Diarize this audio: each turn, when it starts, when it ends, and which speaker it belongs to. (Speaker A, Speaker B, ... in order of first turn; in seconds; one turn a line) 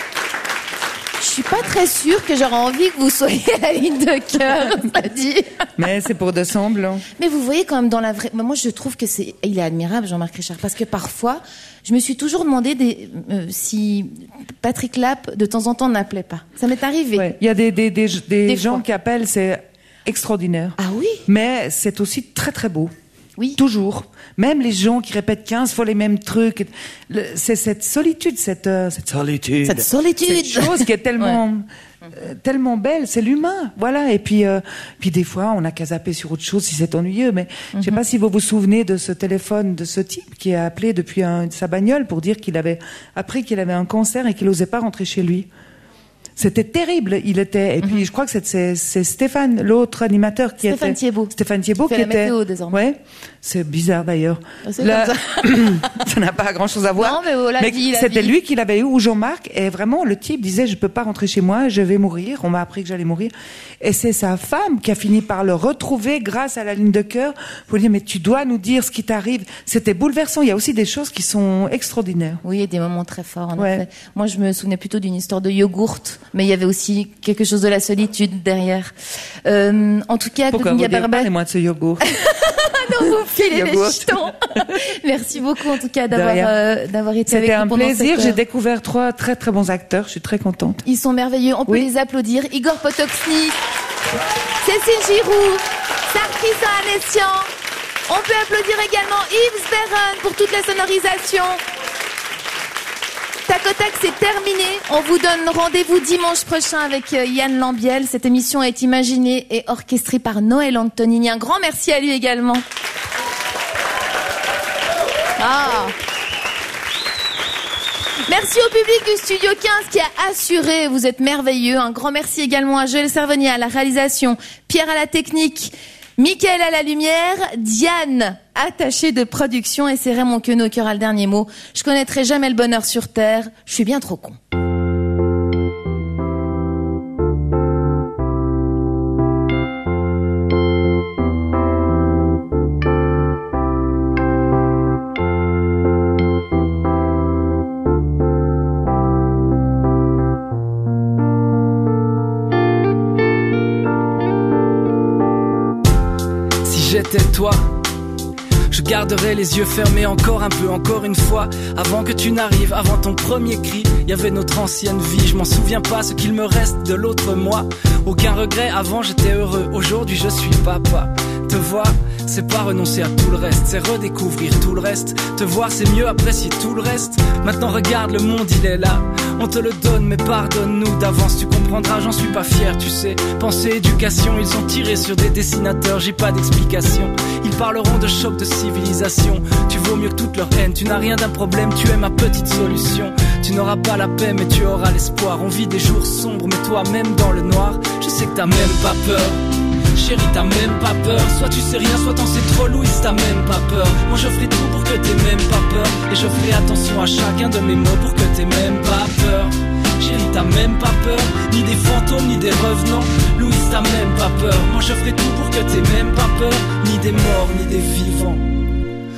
Speaker A: 1.2-5.6
Speaker B: 5.8-7.1
Speaker A: 7.2-17.3
Speaker B: 17.1-22.9
Speaker A: 18.5-18.8
Speaker A: 20.8-21.2
Speaker B: 23.6-45.5
Speaker A: 29.6-31.4
Speaker B: 46.4-72.4
Speaker A: 50.6-51.3
Speaker A: 51.9-52.8
Speaker A: 54.6-55.8
Speaker A: 57.0-58.3
Speaker A: 72.4-78.9
Speaker B: 73.6-73.9
Speaker A: 79.5-81.3
Speaker B: 80.5-82.0
Speaker A: 82.1-88.4
Speaker B: 83.0-84.7
Speaker B: 86.1-86.5
Speaker B: 87.3-90.8
Speaker A: 90.9-93.6
Speaker A: 94.6-97.5
Speaker A: 98.1-101.6
Speaker A: 103.5-112.6
Speaker A: 115.4-116.0
Speaker A: 118.3-134.4
Speaker C: 156.6-157.8
Speaker C: 158.7-199.4
Speaker C: 199.9-218.4